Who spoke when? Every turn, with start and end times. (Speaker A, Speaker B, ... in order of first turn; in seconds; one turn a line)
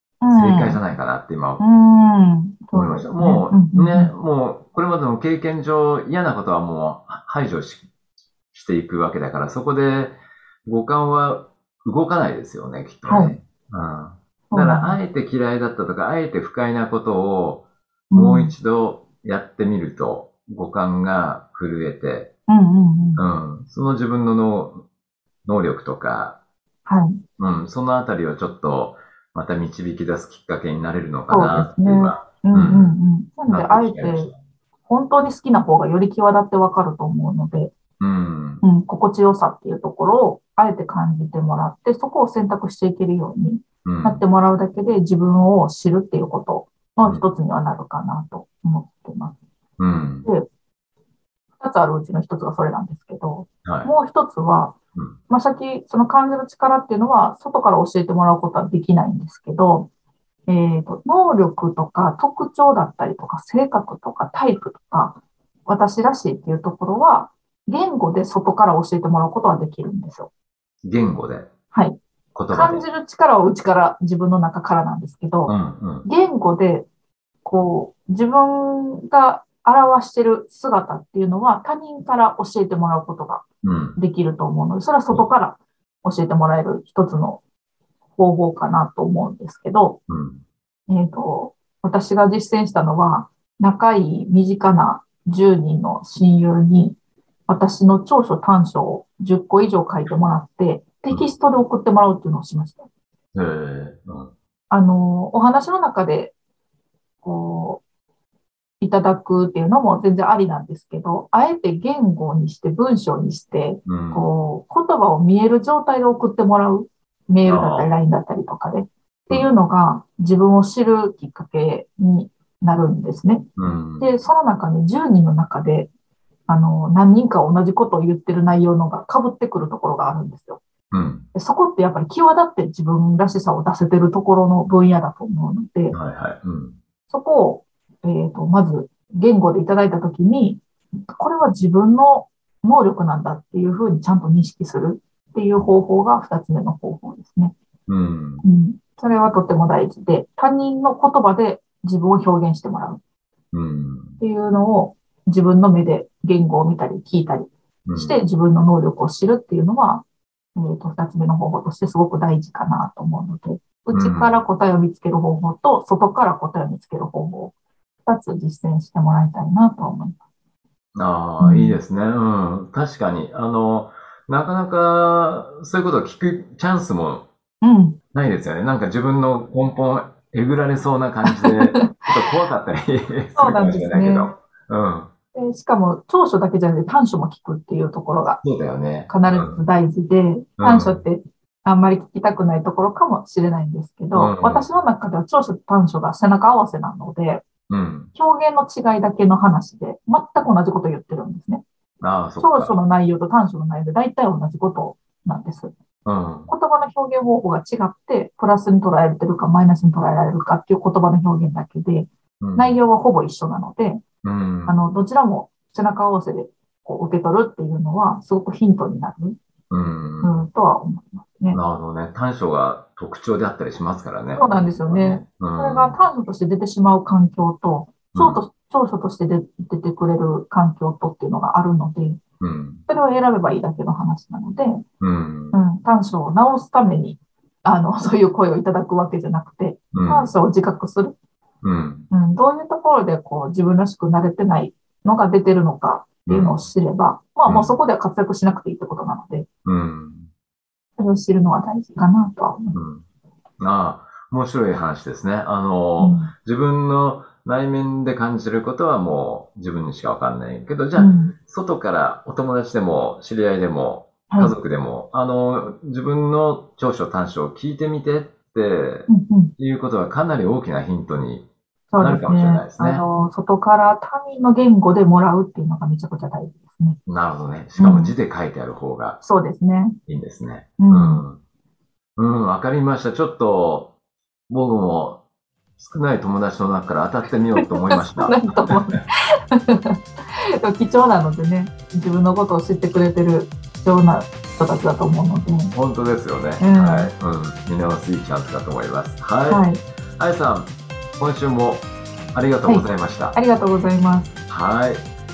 Speaker A: 0.2-0.8
Speaker B: 0.3-1.6
Speaker A: 1.6-4.1
Speaker B: 2.7-7.9
Speaker B: 8.5-22.3
Speaker A: 13.1-13.3
Speaker A: 14.5-15.0
Speaker A: 18.1-18.5
Speaker A: 22.5-23.2
Speaker B: 23.2-24.8
Speaker B: 25.4-26.4
Speaker A: 26.9-27.2
Speaker B: 27.4-32.9
Speaker A: 31.3-34.3
Speaker B: 33.5-34.4
Speaker A: 34.9-37.7
Speaker B: 38.0-38.6
Speaker A: 38.6-49.4
Speaker B: 43.8-44.2
Speaker B: 49.8-50.3
Speaker A: 51.6-54.8
Speaker B: 53.6-53.9
Speaker A: 55.3-59.9
Speaker A: 60.5-70.3
Speaker B: 70.8-71.5
Speaker A: 71.7-72.0
Speaker B: 72.3-72.8
Speaker A: 72.5-76.9
Speaker B: 75.5-76.0
Speaker A: 77.4-83.4
Speaker B: 83.6-84.0
Speaker A: 84.0-87.4
Speaker A: 88.2-90.0
Speaker B: 90.1-90.4
Speaker A: 90.9-97.0
Speaker A: 97.5-102.9
Speaker B: 103.3-104.3
Speaker A: 104.7-106.3
Speaker A: 107.2-107.8
Speaker A: 108.8-123.5
Speaker B: 113.8-114.3
Speaker B: 117.4-117.9
Speaker B: 123.6-124.1
Speaker A: 124.0-125.9
Speaker A: 126.5-130.6
Speaker B: 130.9-131.3
Speaker A: 131.3-136.0
Speaker B: 135.9-136.8
Speaker A: 137.1-147.5
Speaker B: 147.9-148.4
Speaker A: 148.4-153.0
Speaker B: 153.5-154.2
Speaker A: 154.2-167.5
Speaker B: 157.8-158.2
Speaker B: 163.9-164.4
Speaker A: 168.0-170.2
Speaker B: 170.9-177.3
Speaker A: 171.4-171.8
Speaker A: 177.6-178.0
Speaker B: 178.1-185.1
Speaker A: 181.2-181.9
Speaker A: 183.3-184.3
Speaker A: 185.3-188.4
Speaker B: 188.4-189.6
Speaker A: 189.1-197.4
Speaker B: 190.6-191.0
Speaker B: 194.1-194.7
Speaker B: 197.7-198.1
Speaker A: 198.1-201.6
Speaker B: 202.0-202.8
Speaker A: 202.4-205.7
Speaker B: 206.0-206.5
Speaker A: 206.5-214.0
Speaker B: 212.4-212.8
Speaker B: 214.2-214.8
Speaker A: 214.7-219.3
Speaker B: 219.7-220.4
Speaker A: 220.2-221.6
Speaker B: 221.5-226.0
Speaker A: 224.3-232.2
Speaker B: 228.1-228.4
Speaker B: 232.4-232.8
Speaker A: 232.9-234.8
Speaker B: 235.0-235.6
Speaker A: 235.5-241.2
Speaker B: 239.9-240.3
Speaker B: 241.6-242.1
Speaker A: 242.1-249.4
Speaker B: 246.3-246.6
Speaker B: 247.5-247.8
Speaker B: 249.6-250.3
Speaker A: 251.0-252.8
Speaker B: 252.7-253.0
Speaker B: 253.6-271.5
Speaker A: 256.0-256.3
Speaker A: 260.9-261.3
Speaker A: 269.1-269.5
Speaker A: 271.9-277.0
Speaker B: 272.0-273.0
Speaker B: 277.1-279.2
Speaker A: 277.8-278.1
Speaker A: 279.2-280.0
Speaker B: 280.1-281.4
Speaker A: 280.8-281.2
Speaker B: 282.2-283.9
Speaker B: 284.5-285.2
Speaker B: 285.8-288.7
Speaker A: 287.6-295.7
Speaker B: 295.7-303.4
Speaker A: 296.6-297.1
Speaker A: 299.5-299.8
Speaker A: 302.6-304.4
Speaker B: 304.5-305.1